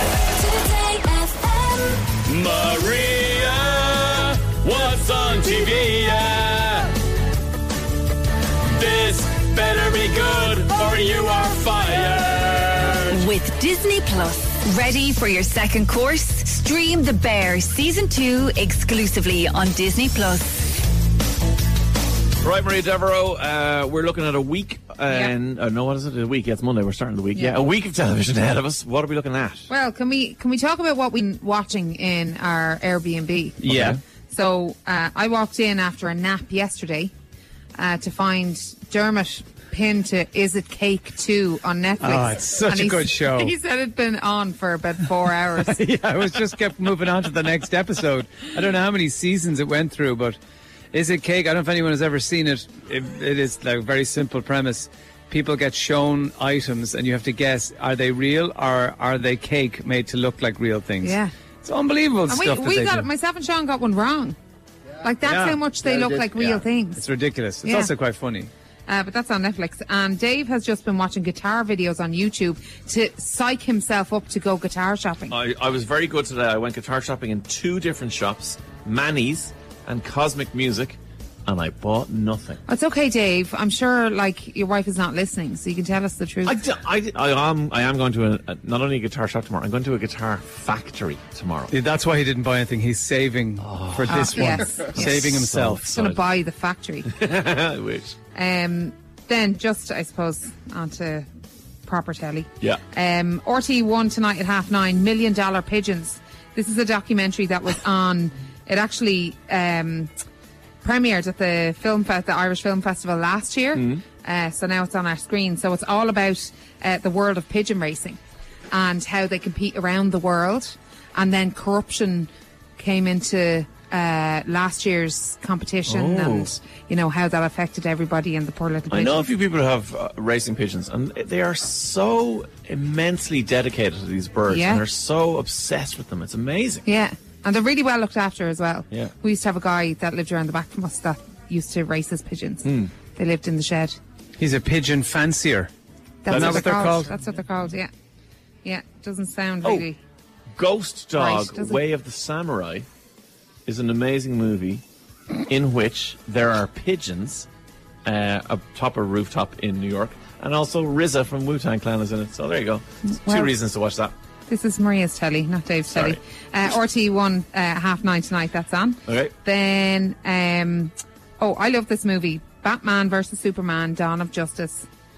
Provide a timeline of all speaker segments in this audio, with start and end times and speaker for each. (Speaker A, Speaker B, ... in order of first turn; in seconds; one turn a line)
Speaker A: 0.4-2.0
Speaker B: 2.2-6.9
Speaker B: 8.8-13.2
Speaker A: 13.1-20.6
Speaker C: 22.4-29.7
Speaker D: 27.3-27.6
Speaker D: 29.7-37.1
Speaker C: 33.6-34.0
Speaker E: 33.7-33.9
Speaker D: 37.8-45.8
Speaker E: 42.0-43.5
Speaker E: 45.7-50.4
Speaker E: 50.9-63.1
Speaker D: 61.0-61.3
Speaker D: 62.3-64.4
Speaker D: 65.0-67.0
Speaker E: 65.2-68.5
Speaker D: 67.6-67.9
Speaker D: 68.9-75.3
Speaker C: 75.3-82.6
Speaker D: 82.7-86.6
Speaker C: 86.4-91.7
Speaker E: 91.7-95.9
Speaker C: 93.6-96.2
Speaker D: 94.1-97.1
Speaker C: 97.1-98.2
Speaker D: 98.3-101.3
Speaker D: 101.8-110.1
Speaker D: 110.8-118.2
Speaker C: 113.8-114.0
Speaker D: 118.7-129.3
Speaker C: 125.8-126.5
Speaker C: 128.9-136.8
Speaker D: 134.5-134.8
Speaker D: 136.8-143.9
Speaker C: 142.6-142.9
Speaker E: 144.4-145.7
Speaker D: 146.2-147.9
Speaker E: 146.3-147.1
Speaker C: 146.3-146.7
Speaker D: 148.6-150.0
Speaker C: 150.6-152.8
Speaker D: 151.1-151.8
Speaker C: 153.7-154.8
Speaker C: 155.5-157.5
Speaker C: 158.1-164.1
Speaker D: 163.0-163.6
Speaker D: 164.5-174.9
Speaker C: 165.9-166.2
Speaker C: 169.1-169.3